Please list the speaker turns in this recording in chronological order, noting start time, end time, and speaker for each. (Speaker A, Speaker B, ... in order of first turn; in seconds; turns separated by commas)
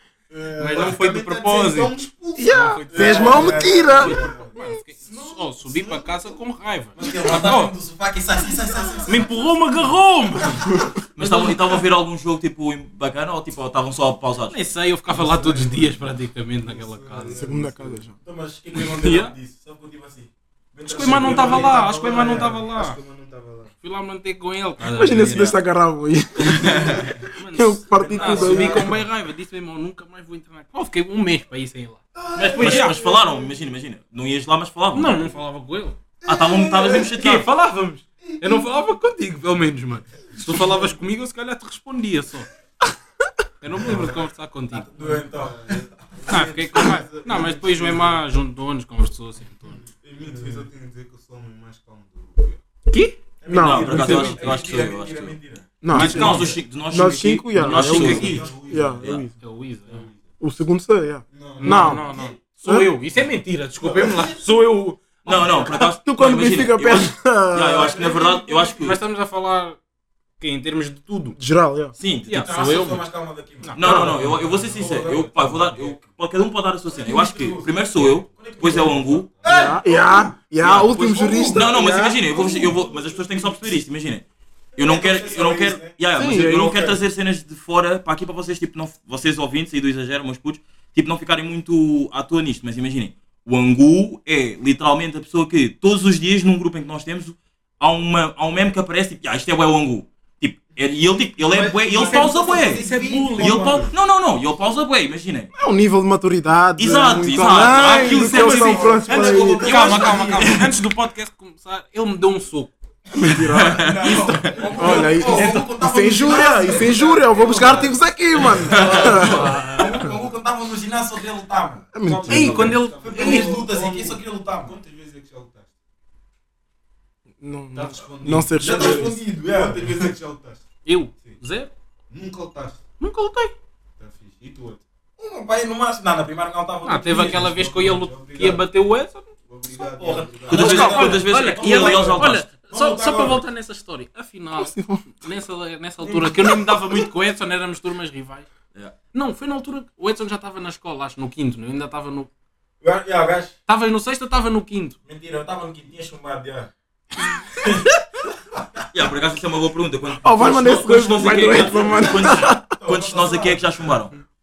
Speaker A: 0.3-6.4, Speaker B: 0.6-7.7, Speaker C: 2.4-4.8, Speaker D: 2.9-4.3, Speaker D: 7.0-9.3, Speaker A: 8.8-9.9, Speaker B: 9.1-10.6, Speaker D: 10.4-11.6, Speaker E: 11.2-14.6, Speaker B: 14.5-17.4, Speaker A: 15.1-18.1, Speaker C: 17.3-18.1, Speaker D: 18.2-22.6, Speaker B: 18.8-19.4, Speaker B: 20.9-23.0, Speaker A: 20.9-23.7, Speaker B: 23.8-25.6, Speaker C: 24.8-29.0, Speaker B: 27.3-33.0, Speaker D: 28.0-29.1, Speaker A: 32.2-33.1, Speaker D: 32.6-33.5, Speaker E: 32.6-35.4, Speaker B: 34.9-36.0, Speaker A: 36.3-37.0, Speaker E: 36.3-37.5, Speaker B: 36.9-42.5, Speaker B: 43.6-44.9, Speaker A: 43.8-44.2, Speaker D: 43.8-44.2, Speaker D: 44.7-46.5, Speaker A: 45.0-48.2, Speaker B: 46.3-49.8, Speaker A: 49.5-52.6, Speaker D: 50.3-50.7, Speaker B: 52.9-53.2, Speaker D: 53.4-56.5, Speaker C: 53.5-54.5, Speaker E: 53.6-58.4, Speaker C: 55.8-59.3, Speaker B: 56.0-56.5, Speaker B: 57.6-58.4, Speaker A: 57.6-59.2, Speaker D: 57.9-58.6, Speaker E: 59.0-59.2, Speaker B: 59.4-60.1, Speaker A: 59.9-60.3, Speaker C: 60.4-62.1, Speaker A: 61.3-62.4, Speaker B: 61.6-65.1, Speaker A: 64.0-64.4, Speaker E: 65.2-69.0, Speaker D: 65.3-65.7, Speaker C: 65.8-68.0, Speaker D: 67.7-68.9, Speaker A: 67.9-68.9, Speaker B: 68.8-69.8, Speaker B: 70.4-71.4, Speaker C: 71.4-72.0, Speaker E: 72.0-72.5, Speaker B: 72.3-73.0, Speaker D: 72.3-75.9, Speaker B: 73.6-74.2, Speaker E: 73.8-79.3, Speaker C: 73.8-74.2, Speaker D: 76.9-83.4, Speaker A: 78.7-79.7, Speaker C: 79.4-82.4, Speaker E: 80.6-84.2, Speaker E: 84.8-102.8, Speaker D: 84.8-86.0, Speaker C: 86.1-87.0, Speaker D: 86.7-87.0, Speaker D: 101.4-103.9, Speaker B: 102.0-103.9, Speaker E: 103.4-105.5, Speaker C: 105.5-109.8, Speaker E: 106.8-109.0, Speaker D: 107.3-110.7, Speaker B: 108.7-112.7, Speaker C: 113.2-113.9, Speaker D: 113.3-124.8, Speaker E: 113.5-114.5, Speaker A: 114.3-118.0, Speaker C: 114.8-120.1, Speaker B: 115.2-115.7, Speaker A: 118.5-119.6, Speaker E: 118.6-119.3, Speaker B: 119.4-119.7, Speaker C: 121.9-122.8, Speaker A: 122.2-125.7, Speaker B: 122.3-123.5, Speaker C: 127.4-129.1, Speaker A: 127.7-131.4, Speaker D: 128.6-130.1, Speaker B: 130.8-131.7, Speaker A: 132.1-132.8, Speaker B: 133.0-133.5, Speaker A: 134.0-134.8, Speaker D: 135.2-137.6, Speaker B: 136.8-139.3, Speaker A: 137.1-138.7, Speaker A: 139.5-140.9, Speaker D: 139.8-143.4, Speaker E: 140.5-142.5, Speaker B: 140.5-148.5, Speaker C: 144.5-145.1, Speaker D: 146.0-147.0, Speaker B: 149.1-152.3, Speaker D: 152.8-153.6, Speaker B: 153.7-155.0, Speaker D: 155.1-156.7, Speaker D: 157.6-158.0, Speaker E: 158.9-164.2, Speaker C: 160.2-162.7, Speaker D: 161.5-163.9